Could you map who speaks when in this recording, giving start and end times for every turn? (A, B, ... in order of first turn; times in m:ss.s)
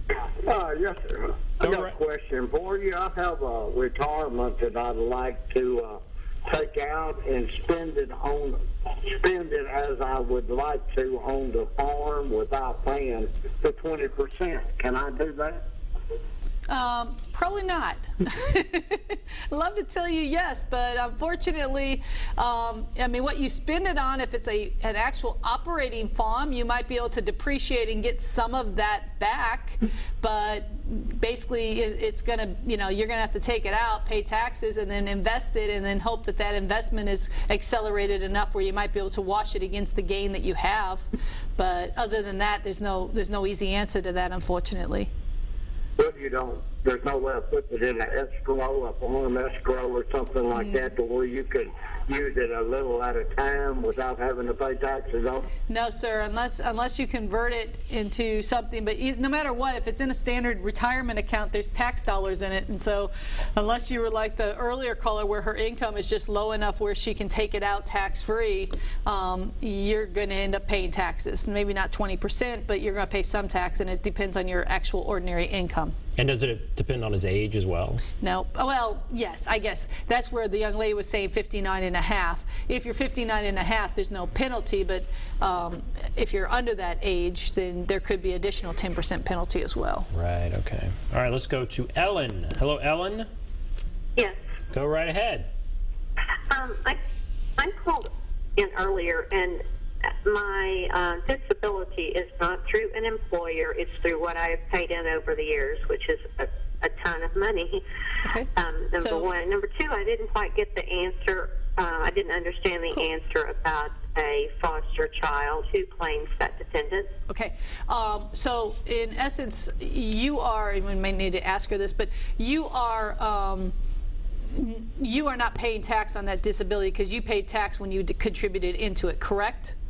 0:00.4-0:15.6 A
0:01.6-0:02.0 B
0:16.7-0:45.1 C
0:46.0-0:55.5 A
0:50.5-0:50.9 C
0:55.7-1:15.9 C
1:16.2-1:18.0 B
1:18.2-1:30.1 C
1:30.1-1:33.3 B
1:34.7-1:35.5 B
1:36.5-1:37.0 D
1:37.6-1:39.6 D
1:40.2-1:47.8 D
1:48.2-1:48.5 C
1:48.6-1:57.1 D
1:49.0-1:49.3 C
1:57.3-2:03.7 C
2:04.5-2:09.7 C